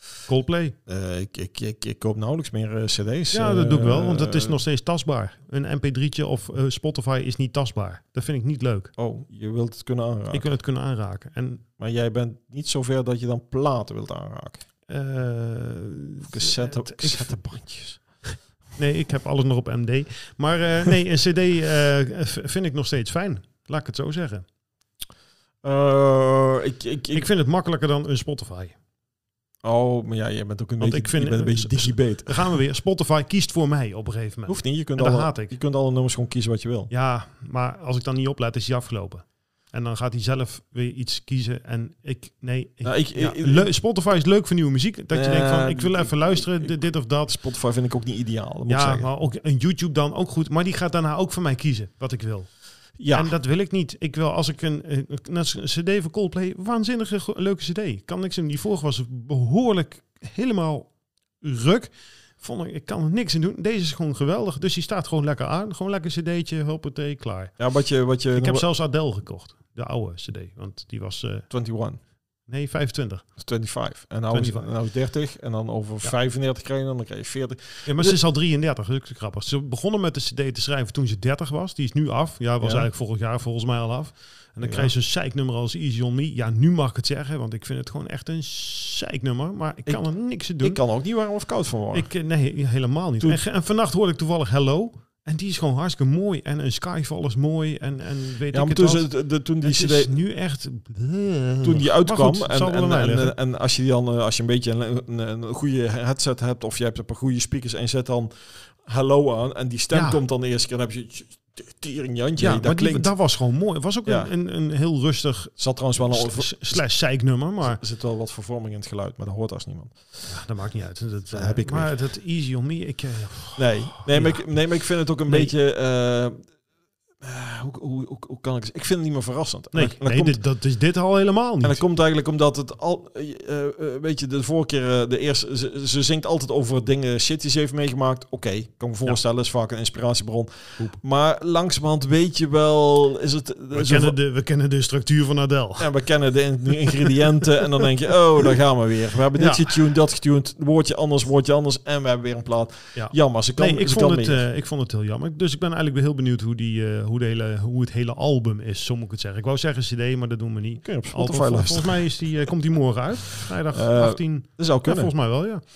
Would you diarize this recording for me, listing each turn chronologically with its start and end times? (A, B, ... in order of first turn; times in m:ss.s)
0:00.1-0:00.8 A
0:00.9-0:04.6 B
0:03.3-0:08.9 A
0:09.0-0:10.5 B
0:10.3-0:11.6 A
0:11.8-0:14.7 B
0:14.9-0:17.5 A
0:16.3-0:18.0 B
0:18.2-0:24.4 A
0:25.6-0:27.3 B
0:27.1-0:28.7 A
0:29.6-0:32.6 B
0:30.8-0:35.6 A
0:34.5-0:36.9 B
0:36.9-0:47.3 A
0:42.8-0:43.7 B
0:45.1-0:49.1 B
0:48.7-1:00.9 A
0:53.0-0:53.4 B
1:01.4-1:07.6 A
1:07.6-1:08.7 B
1:08.3-1:11.5 A
1:11.5-1:12.0 B
1:12.5-1:13.3 A
1:13.4-1:18.2 B
1:14.3-1:14.7 A
1:17.9-1:30.8 A
1:22.6-1:22.9 B
1:24.6-1:24.9 B
1:30.6-1:32.1 B
1:31.9-1:43.4 A
1:38.5-1:40.1 B
1:41.6-1:53.1 B
1:49.9-1:50.2 A
1:52.4-1:57.8 A
1:55.6-1:56.9 B
1:57.6-2:00.3 B
2:00.3-2:05.5 A
2:01.3-2:02.0 B
2:03.6-2:06.5 B
2:07.2-2:10.4 B
2:09.7-2:11.8 A
2:11.6-2:24.2 B
2:23.7-2:25.9 A
2:25.8-2:34.4 B
2:29.4-2:29.9 A
2:33.0-2:45.6 A
2:40.8-2:42.5 B
2:43.2-2:45.1 B